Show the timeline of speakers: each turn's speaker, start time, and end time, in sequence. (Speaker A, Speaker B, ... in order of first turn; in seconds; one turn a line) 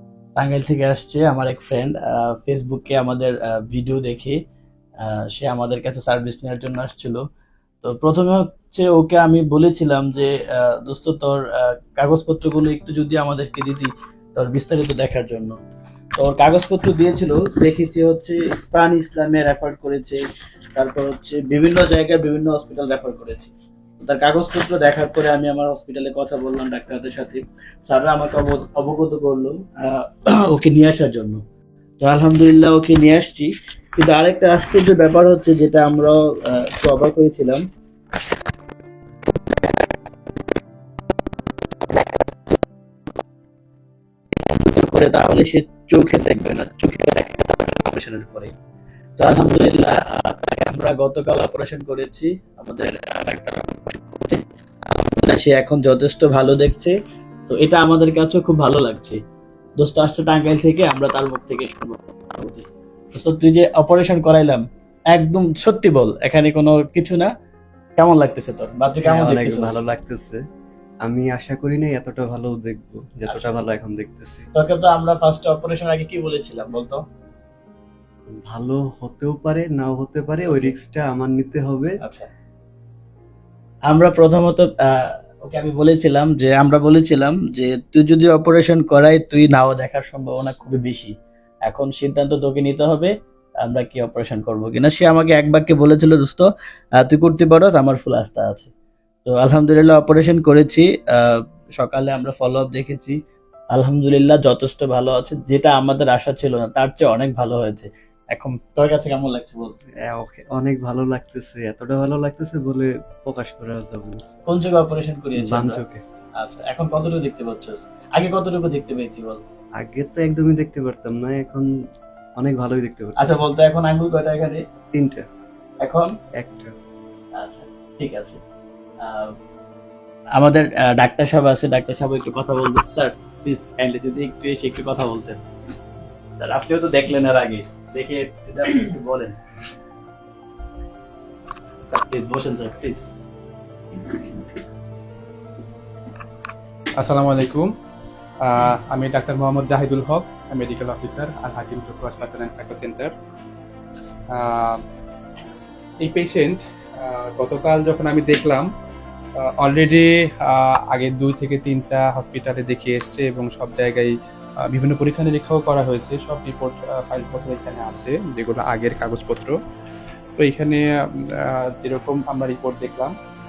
Speaker A: 0.4-4.4
Speaker A: 5.0-7.2
Speaker A: 7.8-15.6
Speaker A: 16.2-20.2
Speaker A: 20.8-31.4
Speaker A: 32.0-37.6
Speaker A: 44.4-48.5
Speaker A: 49.2-57.0
Speaker A: 57.5-59.2
Speaker A: 59.8-67.3
Speaker A: 68.0-69.8
Speaker B: 69.0-70.4
Speaker B: 71.0-74.5
Speaker A: 73.3-73.6
Speaker A: 74.6-77.0
Speaker B: 78.3-82.0
Speaker A: 80.5-80.8
Speaker A: 83.9-91.1
Speaker A: 91.7-93.1
Speaker A: 93.6-96.5
Speaker A: 97.0-98.7
Speaker A: 99.3-103.2
Speaker A: 103.7-109.8
Speaker B: 110.0-114.2
Speaker A: 114.5-115.8
Speaker B: 115.4-116.0
Speaker A: 116.4-119.4
Speaker B: 119.8-121.7
Speaker B: 122.4-123.4
Speaker A: 123.2-124.6
Speaker B: 124.9-125.3
Speaker A: 125.8-126.1
Speaker B: 126.4-126.7
Speaker A: 127.4-128.4
Speaker A: 129.0-129.4
Speaker A: 130.4-135.4
Speaker A: 136.4-139.4
Speaker A: 141.9-143.1
Speaker C: 147.0-147.7
Speaker C: 148.4-153.1
Speaker C: 154.3-154.8
Speaker C: 156.0-158.7
Speaker C: 159.4-169.6
Speaker C: 170.4-173.2